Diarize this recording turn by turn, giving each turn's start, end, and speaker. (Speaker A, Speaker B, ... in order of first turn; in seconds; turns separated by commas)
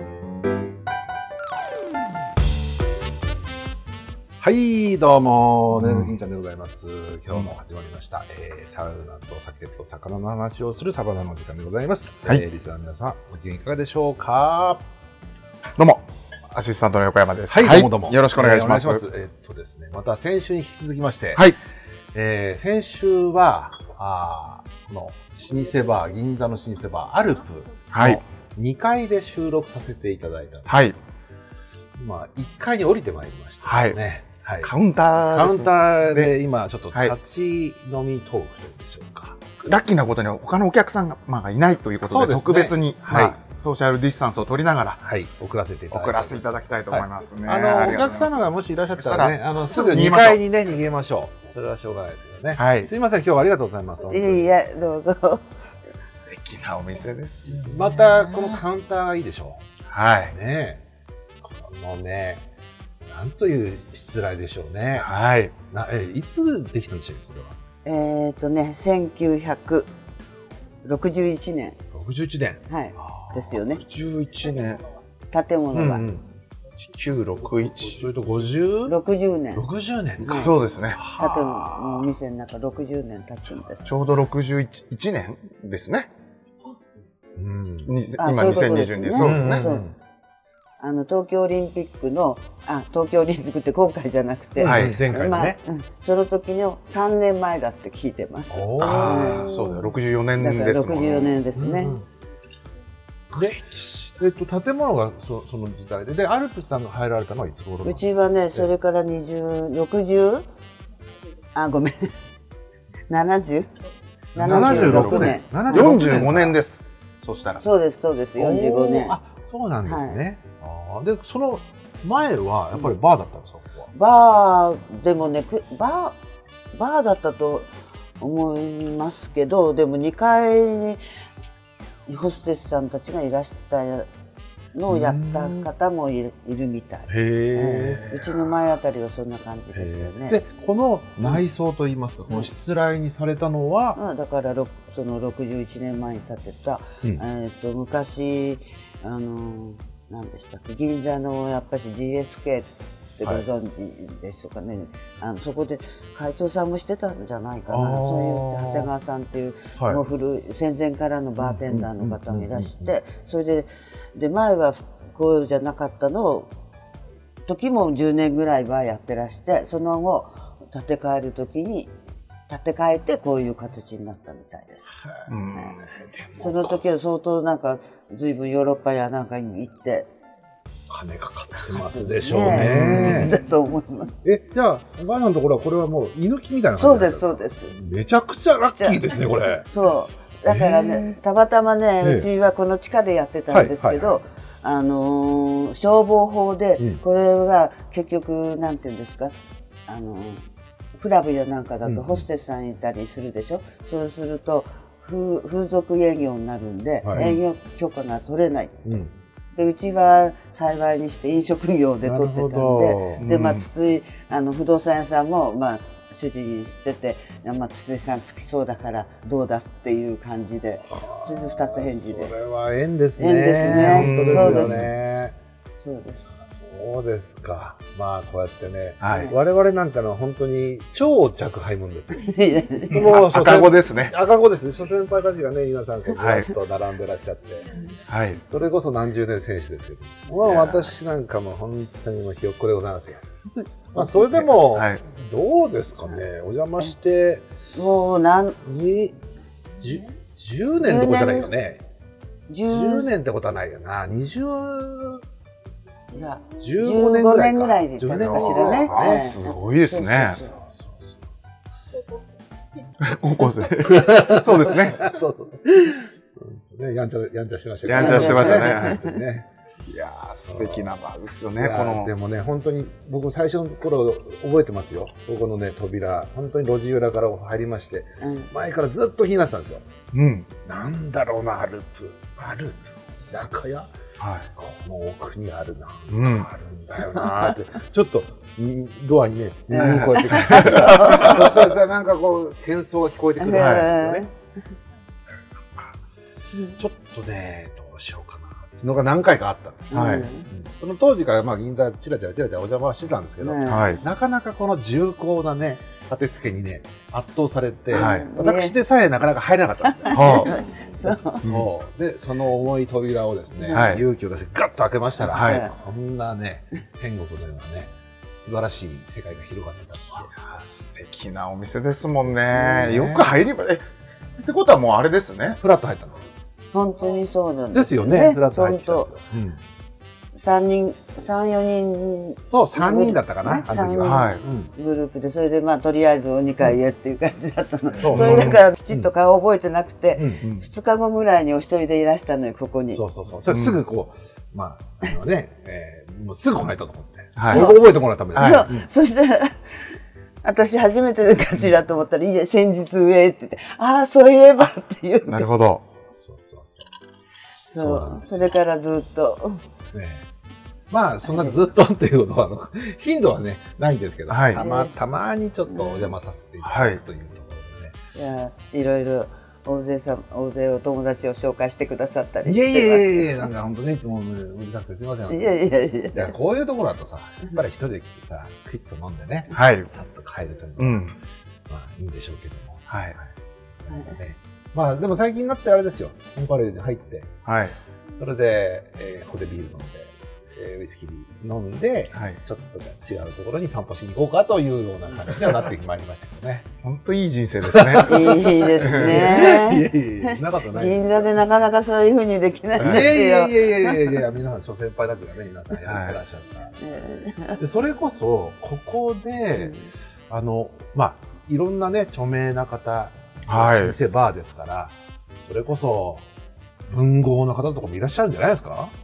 Speaker A: 4.4-14.8, Speaker B: 5.7-6.1, Speaker B: 15.8-19.0, Speaker A: 17.5-21.5, Speaker A: 22.1-31.0, Speaker B: 27.9-28.2, Speaker B: 30.7-30.9, Speaker A: 32.0-34.7, Speaker B: 33.6-34.0, Speaker B: 34.6-36.3, Speaker A: 35.3-39.4, Speaker B: 39.6-45.0, Speaker A: 42.0-43.4, Speaker A: 45.0-54.5, Speaker B: 45.9-48.4, Speaker B: 49.0-50.4, Speaker B: 52.5-52.9, Speaker C: 54.1-55.5, Speaker B: 56.0-58.6, Speaker A: 57.6-59.6, Speaker B: 59.9-60.4, Speaker A: 60.3-60.8, Speaker A: 61.4-62.4, Speaker A: 63.1-65.1, Speaker B: 64.9-65.5, Speaker A: 65.7-67.5, Speaker C: 67.8-69.9, Speaker C: 70.8-71.8, Speaker A: 71.9-73.6, Speaker C: 72.7-73.8, Speaker B: 73.6-74.9, Speaker C: 75.3-76.0, Speaker A: 75.7-76.2, Speaker B: 76.8-78.1, Speaker A: 77.8-79.0, Speaker C: 78.8-79.7, Speaker A: 79.5-82.0, Speaker C: 80.2-80.5, Speaker B: 80.2-81.1, Speaker C: 81.1-84.1, Speaker B: 83.8-86.1, Speaker A: 87.3-87.9, Speaker B: 87.8-89.8, Speaker C: 88.2-89.8, Speaker A: 89.2-89.9, Speaker C: 90.8-102.0, Speaker A: 94.6-95.6, Speaker B: 94.6-95.0, Speaker A: 98.5-99.5, Speaker B: 98.8-101.5, Speaker A: 101.5-102.0, Speaker A: 103.3-108.7, Speaker B: 103.3-103.6, Speaker C: 107.8-110.5, Speaker C: 111.5-112.1, Speaker C: 113.1-113.7, Speaker C: 114.3-116.2, Speaker A: 114.3-116.6, Speaker B: 114.4-117.6, Speaker C: 117.6-119.2, Speaker A: 118.4-123.9, Speaker C: 119.8-120.2, Speaker C: 123.9-126.2, Speaker C: 126.7-127.7, Speaker C: 128.2-131.0, Speaker C: 132.1-134.1, Speaker C: 134.7-140.4, Speaker A: 134.9-135.7, Speaker A: 137.1-138.0, Speaker B: 137.9-138.4, Speaker A: 139.7-144.0, Speaker C: 143.9-166.5, Speaker A: 157.7-158.9, Speaker A: 161.4-162.9, Speaker C: 167.5-171.9, Speaker C: 172.5-175.0, Speaker B: 175.3-175.9, Speaker A: 175.8-176.8, Speaker C: 176.4-180.1, Speaker A: 180.9-183.3, Speaker C: 181.7-184.1, Speaker B: 182.5-183.3, Speaker A: 184.2-189.7, Speaker C: 186.8-187.8, Speaker C: 188.6-199.3, Speaker A: 190.5-191.2, Speaker A: 192.0-192.3, Speaker A: 193.5-194.1, Speaker C: 199.9-200.4, Speaker C: 200.9-209.0, Speaker A: 201.8-202.3, Speaker A: 207.0-207.3, Speaker A: 208.8-209.1, Speaker C: 209.5-222.3, Speaker A: 212.0-213.2, Speaker B: 213.2-213.7, Speaker A: 220.9-225.3, Speaker C: 223.2-224.9, Speaker B: 223.7-224.9, Speaker C: 225.8-226.3, Speaker A: 226.4-232.3, Speaker B: 229.0-229.3, Speaker C: 229.1-229.3, Speaker C: 232.2-233.0, Speaker A: 232.9-237.8, Speaker B: 232.9-234.2, Speaker B: 236.1-236.5, Speaker B: 238.1-238.4, Speaker A: 238.4-243.2, Speaker B: 240.4-240.9, Speaker A: 243.9-247.4, Speaker B: 244.1-245.0, Speaker C: 247.7-248.6, Speaker A: 248.6-249.2, Speaker A: 249.8-251.8, Speaker C: 250.8-251.5, Speaker C: 252.5-253.1, Speaker A: 252.5-255.2, Speaker C: 256.1-260.6, Speaker A: 256.6-259.3, Speaker B: 258.1-260.5, Speaker A: 260.4-261.2, Speaker B: 263.0-265.1, Speaker A: 263.8-269.5, Speaker B: 267.8-269.1, Speaker C: 267.9-269.2, Speaker B: 269.9-272.1, Speaker A: 270.5-270.9, Speaker A: 271.6-279.8, Speaker C: 278.2-278.5, Speaker B: 280.1-280.5, Speaker A: 280.6-283.9, Speaker B: 284.2-284.5, Speaker A: 284.5-294.3, Speaker B: 286.1-286.5, Speaker C: 287.1-287.5, Speaker C: 289.7-291.4, Speaker B: 289.7-291.7, Speaker C: 293.4-294.3, Speaker B: 293.5-293.9, Speaker A: 295.5-296.0, Speaker A: 296.7-320.3, Speaker B: 299.9-300.3, Speaker C: 299.9-300.5, Speaker C: 303.4-304.0, Speaker B: 303.6-304.0, Speaker B: 307.9-308.3, Speaker C: 307.9-308.7, Speaker C: 310.0-311.5, Speaker B: 310.1-310.6, Speaker B: 313.7-314.1, Speaker C: 315.3-315.7, Speaker B: 315.3-315.6, Speaker B: 320.2-323.8, Speaker A: 322.3-323.4, Speaker B: 324.4-325.6, Speaker A: 325.6-326.3, Speaker C: 326.7-329.1, Speaker A: 327.7-329.6, Speaker C: 330.3-343.0, Speaker A: 332.3-334.7, Speaker B: 334.0-334.4, Speaker A: 338.0-339.1, Speaker B: 338.1-338.6, Speaker A: 340.1-340.4, Speaker A: 342.9-348.9, Speaker B: 343.5-343.8, Speaker B: 347.4-347.8, Speaker C: 347.4-355.5, Speaker B: 348.3-348.7, Speaker B: 355.3-355.8, Speaker A: 355.9-356.9, Speaker C: 357.7-359.6, Speaker A: 357.7-358.5, Speaker A: 359.9-360.2, Speaker A: 360.9-368.0, Speaker C: 361.2-361.6, Speaker B: 364.3-364.6, Speaker C: 364.6-364.9, Speaker C: 365.7-366.1, Speaker B: 366.6-367.0, Speaker C: 368.1-373.5, Speaker A: 372.4-375.6, Speaker C: 375.3-376.3, Speaker A: 376.1-381.1, Speaker B: 379.5-379.9, Speaker B: 380.8-381.1, Speaker A: 381.7-383.3, Speaker B: 382.9-383.1, Speaker A: 383.8-387.4, Speaker B: 387.4-387.8, Speaker A: 388.1-396.7, Speaker B: 392.1-392.4, Speaker C: 395.1-395.4, Speaker B: 396.8-399.2, Speaker A: 397.6-401.3, Speaker C: 398.0-404.1, Speaker B: 402.8-403.1, Speaker A: 402.8-406.8, Speaker B: 405.8-406.2, Speaker C: 406.8-407.6, Speaker A: 407.6-409.7, Speaker C: 409.6-409.8, Speaker A: 410.3-416.2, Speaker B: 413.4-414.0, Speaker A: 416.9-418.9